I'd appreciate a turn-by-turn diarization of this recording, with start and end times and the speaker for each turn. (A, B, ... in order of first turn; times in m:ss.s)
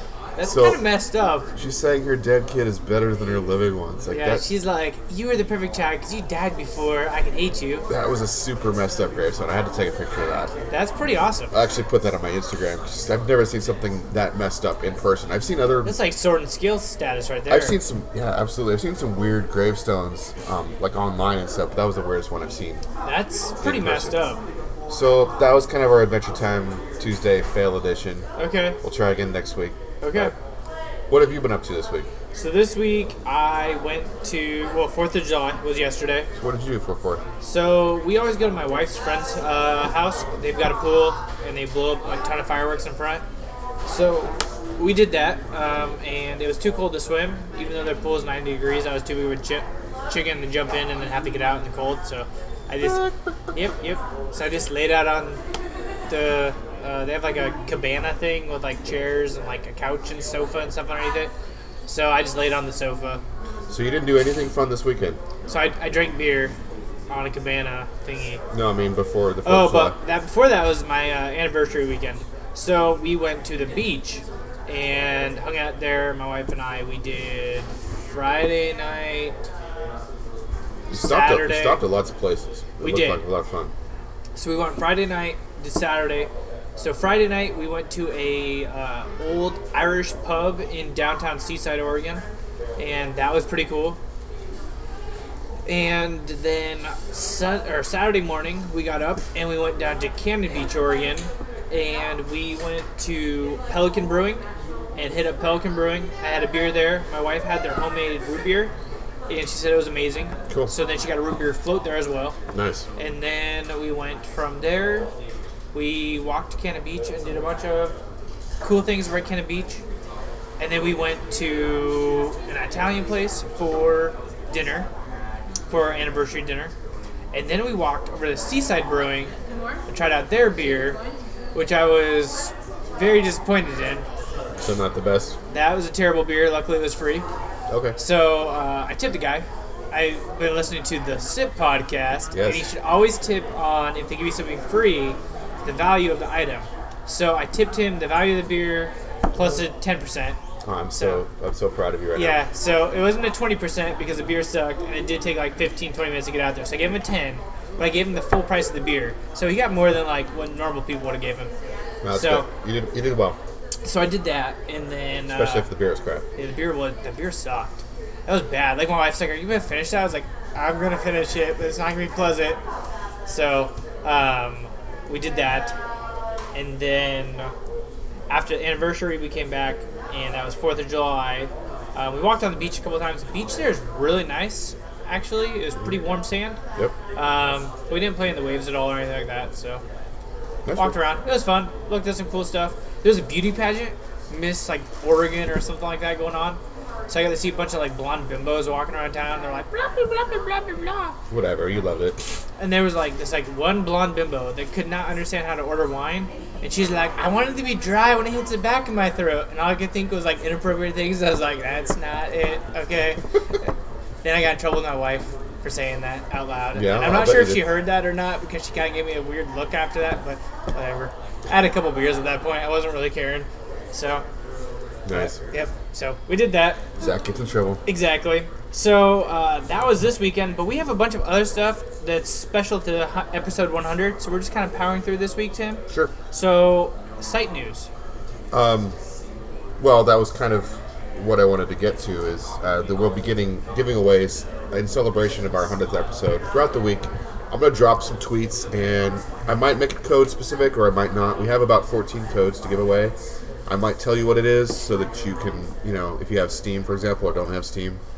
0:00.4-0:01.5 A
0:00.4-0:00.8 B
0:01.6-0:04.5 B
0:04.1-0:07.8 A
0:07.9-0:10.5 B
0:10.7-0:11.5 A
0:11.5-0:16.0 B
0:15.8-0:17.8 A
0:17.5-0:22.8 B
0:23.0-0:24.4 A
0:23.6-0:24.3 B
0:24.9-0:28.2 B
0:28.4-0:28.8 A
0:28.8-0:30.3 B
0:30.0-0:30.3 A
0:31.1-0:32.1 B
0:32.3-0:36.3 A
0:36.4-0:37.2 B
0:37.4-0:43.2 A
0:43.9-0:55.4 A
0:56.1-1:01.3 A
1:01.8-1:03.2 A
1:03.7-1:05.2 B
1:05.5-1:06.5 A
1:07.1-1:08.4 A
1:08.5-1:10.0 B
1:09.4-1:19.4 A
1:20.9-1:23.7 B
1:20.9-1:21.8 A
1:22.8-1:23.2 A
1:24.4-1:32.2 A
1:32.8-1:34.0 A
1:35.6-1:44.4 A
1:45.0-1:48.7 A
1:49.3-1:52.4 A
1:52.5-1:52.9 B
1:53.0-1:55.1 A
1:55.7-1:57.9 A
1:58.6-1:59.8 A
2:00.6-2:04.9 A
2:05.7-2:06.7 A
2:07.3-2:09.3 A
2:09.9-2:11.0 A
2:11.5-2:14.0 A
2:14.6-2:15.4 B
2:15.5-2:17.2 A
2:17.7-2:18.0 B
2:18.0-2:30.4 A
2:22.3-2:22.7 B
2:30.6-2:32.4 B
2:30.9-2:31.2 A
2:32.1-2:41.5 A
2:42.0-2:43.4 B
2:42.1-2:42.5 A
2:43.8-2:45.7 A
2:45.3-2:46.2 B
2:46.4-2:52.6 A
2:53.3-2:55.7 A
2:56.5-2:57.5 A
2:58.3-3:06.6 A
3:07.1-3:09.8 A
3:10.6-3:11.0 B
3:10.7-3:21.2 A
3:21.3-3:22.2 B
3:22.6-3:33.7 A
3:34.2-3:44.2 A
3:36.7-3:37.8 B
3:45.0-3:45.4 B
3:45.1-3:46.8 A
3:47.0-3:47.8 B
3:47.8-3:57.9 A
3:55.9-3:56.1 B
3:58.5-3:59.0 B
3:59.8-4:13.1 B
4:13.7-4:18.0 B